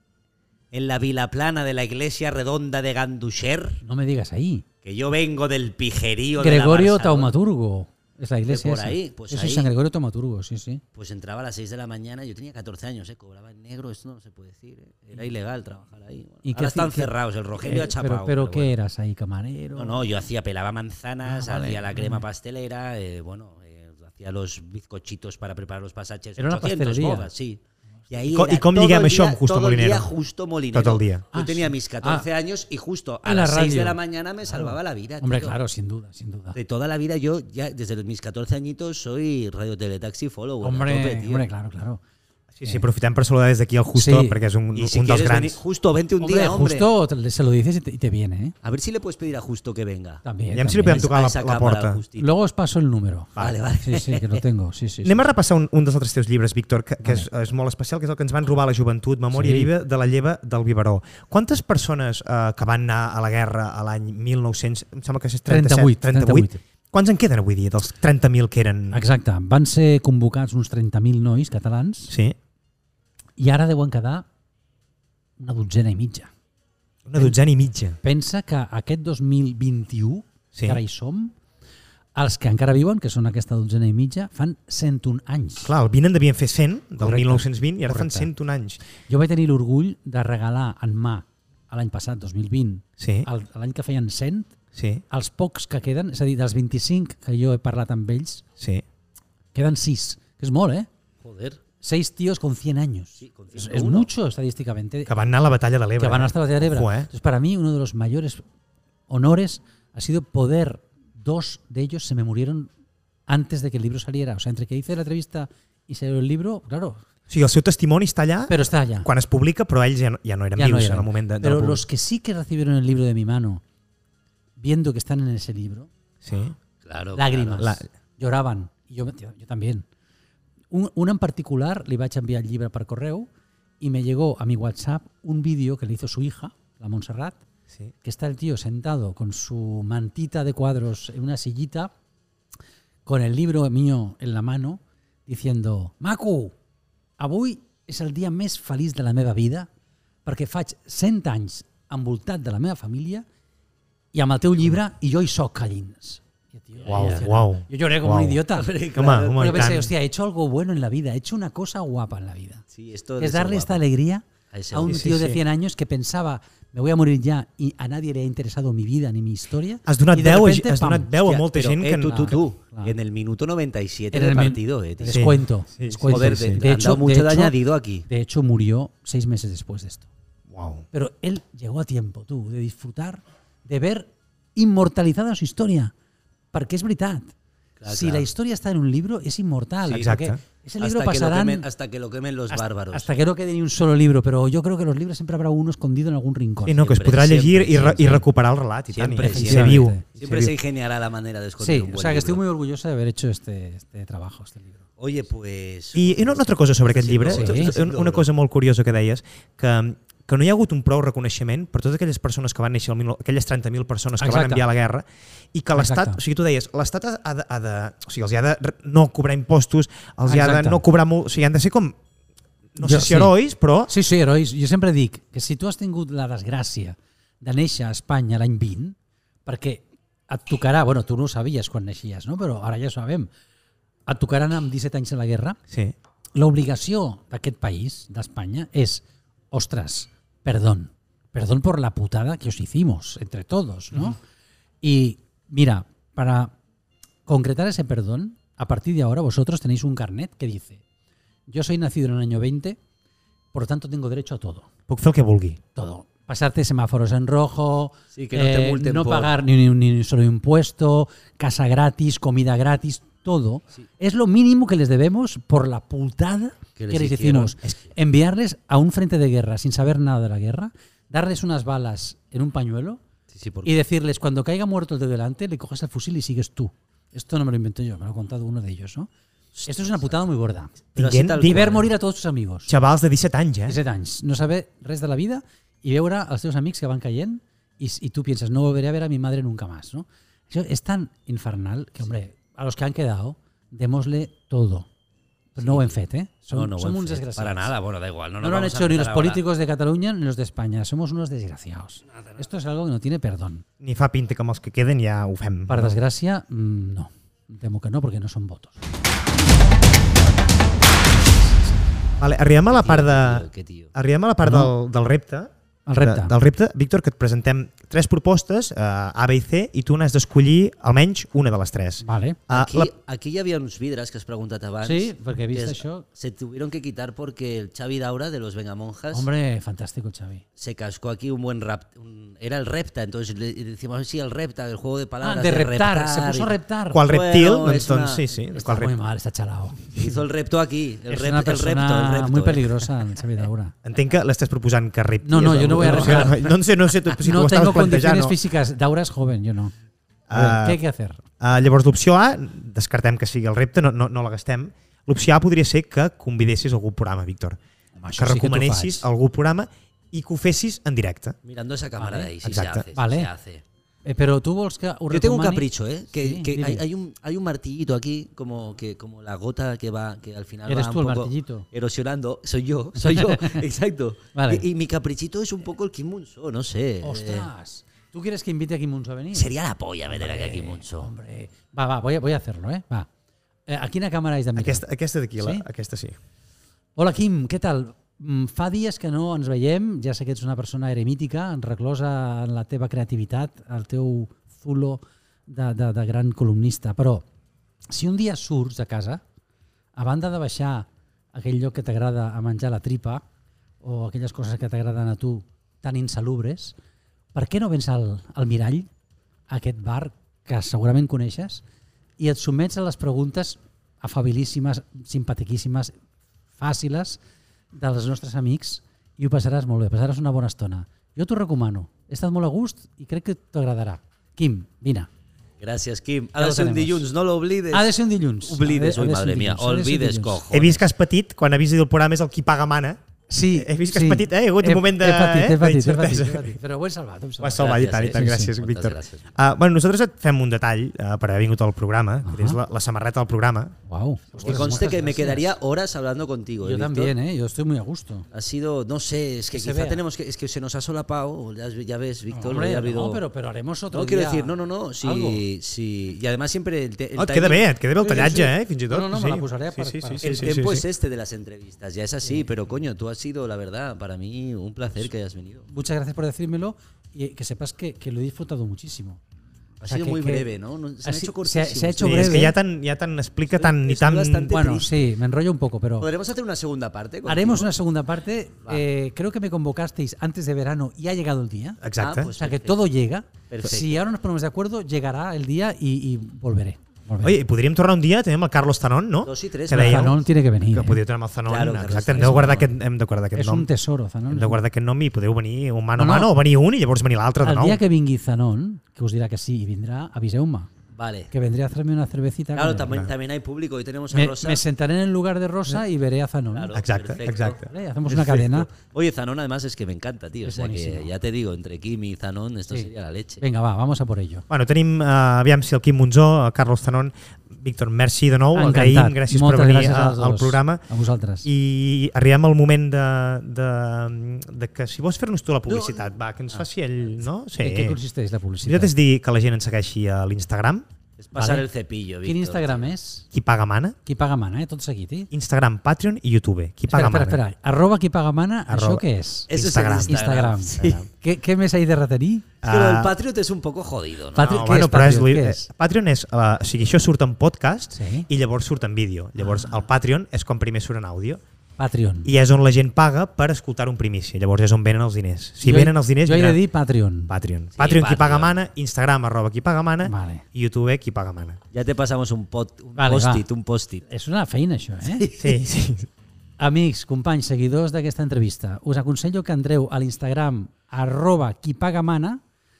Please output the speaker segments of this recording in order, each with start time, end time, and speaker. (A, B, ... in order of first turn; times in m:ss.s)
0:00.7-0:03.8 A
0:03.8-0:04.6 B
0:04.8-0:07.3 A
0:06.4-0:10.8 B
0:08.5-0:09.7 A
0:10.9-0:18.7 A
0:16.4-0:20.1 B
0:19.8-0:35.6 A
0:21.2-0:22.2 B
0:26.4-0:27.3 B
0:28.2-0:30.1 C
0:30.7-0:31.3 C
0:31.3-0:32.2 B
0:33.2-0:36.6 B
0:36.5-0:41.4 A
0:40.6-0:42.0 B
0:42.5-0:45.6 C
0:43.9-0:44.4 B
0:44.7-0:46.9 A
0:46.2-0:48.5 B
0:48.6-0:50.2 A
0:50.2-0:51.1 B
0:50.5-0:52.0 C
0:50.8-0:52.3 A
0:52.2-0:55.3 B
0:53.4-0:54.4 A
0:55.0-1:09.0 C
0:59.3-0:59.7 B
1:05.5-1:06.6 B
1:08.9-1:12.1 B
1:12.1-1:12.4 C
1:13.4-1:14.2 B
1:15.4-1:16.3 B
1:17.1-1:18.0 C
1:18.0-1:21.3 B
1:20.5-1:20.8 C
1:22.2-1:25.7 B
1:25.6-1:28.8 C
1:27.0-1:28.3 B
1:29.0-1:34.5 B
1:33.0-1:33.3 C
1:34.7-1:35.0 C
1:35.1-1:38.4 B
1:38.6-1:38.8 C
1:39.5-1:40.9 B
1:41.2-1:41.6 A
1:41.8-1:45.2 B
1:43.2-1:44.1 A
1:45.1-1:47.1 C
1:46.0-1:48.4 B
1:49.1-1:52.7 B
1:53.3-1:57.0 B
1:57.3-2:01.8 C
1:58.5-1:59.1 B
2:00.6-2:03.6 B
2:04.6-2:05.9 B
2:06.2-2:06.6 C
2:06.8-2:07.7 A
2:07.2-2:09.8 B
2:10.7-2:13.3 B
2:13.8-2:17.4 B
2:18.0-2:21.9 B
2:23.0-2:26.5 B
2:27.2-2:29.7 B
2:30.2-2:33.2 B
2:34.1-2:38.8 B
2:36.9-2:37.2 A
2:36.9-2:39.9 C
2:38.5-2:39.8 A
2:39.4-2:42.6 B
2:42.7-2:43.8 A
2:43.2-2:51.1 B
2:44.5-2:45.2 A
2:44.8-2:45.4 C
2:49.9-2:52.4 C
2:51.2-2:55.3 A
2:52.0-2:52.9 B
2:54.1-3:00.1 B
2:55.1-2:56.6 C
2:56.1-2:58.0 A
3:00.5-3:00.8 C
3:00.9-3:05.9 B
3:06.5-3:07.3 B
3:07.8-3:08.3 A
3:07.9-3:11.6 B
3:09.9-3:10.4 C
3:10.8-3:13.1 A
3:12.5-3:16.9 B
3:16.6-3:20.6 C
3:16.8-3:18.2 A
3:18.9-3:22.4 A
3:19.2-3:20.0 B
3:21.6-3:24.8 B
3:25.0-3:28.3 A
3:25.9-3:42.0 C
3:27.3-3:27.8 B
3:34.2-3:34.6 B
3:35.7-3:36.2 B
3:40.3-3:40.8 B
3:42.7-3:43.9 C
3:42.8-3:43.3 B
3:43.9-3:53.3 B
3:54.0-3:55.6 B
3:55.7-3:55.9 C
3:56.3-4:04.2 B
4:04.8-4:06.5 B
4:07.2-4:10.8 B
4:11.5-4:12.8 B
4:13.5-4:14.7 B
4:14.9-4:15.6 C
4:15.7-4:33.0 B
4:18.1-4:19.3 A
4:26.8-4:27.7 A
4:33.3-4:33.7 A
4:33.6-4:39.1 B
4:39.5-4:40.1 A
4:39.6-4:40.8 B
4:40.9-4:41.9 A
4:41.0-4:41.7 C
4:41.4-4:42.7 B
4:42.7-4:43.8 C
4:43.6-4:54.9 B
4:55.5-4:57.7 B
4:55.6-4:56.0 A
4:56.5-4:59.4 A
4:58.4-5:03.6 B
5:03.8-5:06.0 C
5:05.7-5:08.8 B
5:11.2-5:11.8 B
5:12.2-5:22.9 C
5:12.7-5:13.9 A
5:14.4-5:14.7 B
5:15.8-5:16.3 B
5:22.0-5:22.4 B
5:22.5-5:29.3 A
5:24.8-5:26.0 B
5:29.1-5:30.4 B
5:30.6-5:38.2 A
5:35.2-5:37.0 B
5:36.9-5:38.9 C
5:38.5-5:40.0 B
5:39.9-5:42.9 A
5:41.1-5:43.7 B
5:43.8-5:48.3 C
5:45.2-5:46.4 B
5:47.2-5:49.7 B
5:50.3-5:50.8 C
5:50.3-5:51.2 B
5:51.4-5:57.6 C
5:58.0-5:59.0 B
5:58.2-6:01.4 C
6:01.4-6:03.6 A
6:02.0-6:02.3 B
6:02.4-6:02.8 C
6:02.9-6:03.3 B
6:04.0-6:06.8 B
6:05.1-6:17.5 A
6:10.7-6:11.6 B
6:13.0-6:13.6 B
6:14.3-6:14.6 B
6:17.0-6:19.5 B
6:19.3-6:21.1 A
6:20.1-6:23.1 B
6:23.7-6:24.8 B
6:24.6-6:26.2 C
6:25.4-6:25.6 B
6:27.0-6:37.2 B
6:37.9-6:39.2 B
6:40.0-6:43.2 B
6:43.8-6:46.8 B
6:47.3-6:48.9 B
6:49.5-6:51.6 B
6:52.2-6:55.9 B
6:56.6-6:57.2 B
6:57.7-7:05.1 B
7:05.6-7:10.8 A
7:06.4-7:07.0 B
7:07.7-7:10.4 B
7:10.5-7:13.0 C
7:13.3-7:18.5 B
7:13.5-7:16.6 C
7:17.4-7:23.8 C
7:17.6-7:19.2 A
7:22.2-7:22.6 B
7:23.9-7:25.5 B
7:24.4-7:27.1 A
7:26.6-7:28.3 B
7:28.3-7:33.2 A
7:29.5-7:30.0 B
7:32.3-7:35.4 B
7:33.9-7:37.7 A
7:37.2-7:40.8 C
7:38.0-7:40.6 B
7:40.2-7:45.7 A
7:45.7-7:49.2 B
7:49.8-7:52.5 A
7:49.8-7:50.4 B
7:51.0-7:52.5 B
7:52.0-7:54.6 C
7:53.5-7:54.9 A
7:54.5-7:56.1 B
7:56.0-7:57.7 A
7:57.2-8:01.8 B
8:01.8-8:02.3 C
8:02.0-8:02.8 A
8:02.4-8:07.4 B
8:03.5-8:04.0 A
8:07.2-8:13.7 C
8:09.2-8:10.1 A
8:09.7-8:11.0 B
8:11.5-8:12.7 A
8:12.1-8:12.7 B
8:13.3-8:14.6 B
8:14.3-8:17.8 C
8:16.0-8:16.3 B
8:17.4-8:20.7 B
8:20.9-8:21.3 A
8:21.3-8:23.0 B
8:22.5-8:24.6 A
8:24.1-8:26.7 B
8:26.5-8:33.4 A
8:26.7-8:27.7 C
8:27.6-8:28.7 B
8:30.4-8:31.1 B
8:33.4-8:34.4 B
8:34.5-8:40.8 C
8:38.5-8:41.4 B
8:41.4-8:48.0 C
8:45.7-8:46.0 B
8:47.6-8:48.9 B
8:48.6-8:50.8 C
8:51.2-8:52.9 A
8:51.4-8:51.6 B
8:52.2-8:53.2 B
8:53.3-8:54.0 C
8:54.0-8:55.3 B
8:55.3-8:57.4 C
8:56.9-9:02.5 B
8:58.7-9:00.2 C
8:59.5-9:01.0 A
9:02.6-9:03.1 C
9:02.6-9:04.5 A
9:04.3-9:05.7 B
9:04.4-9:11.4 C
9:07.9-9:08.3 B
9:09.4-9:09.8 B
9:11.8-9:12.3 B
9:12.2-9:16.6 C
9:15.6-9:17.3 B
9:17.3-9:21.6 C
9:17.8-9:18.6 A
9:20.0-9:20.4 B
9:21.7-9:24.0 A
9:23.0-9:23.4 B
9:24.0-9:25.3 B
9:25.1-9:25.5 A
9:25.4-9:26.1 C
9:26.6-9:32.4 B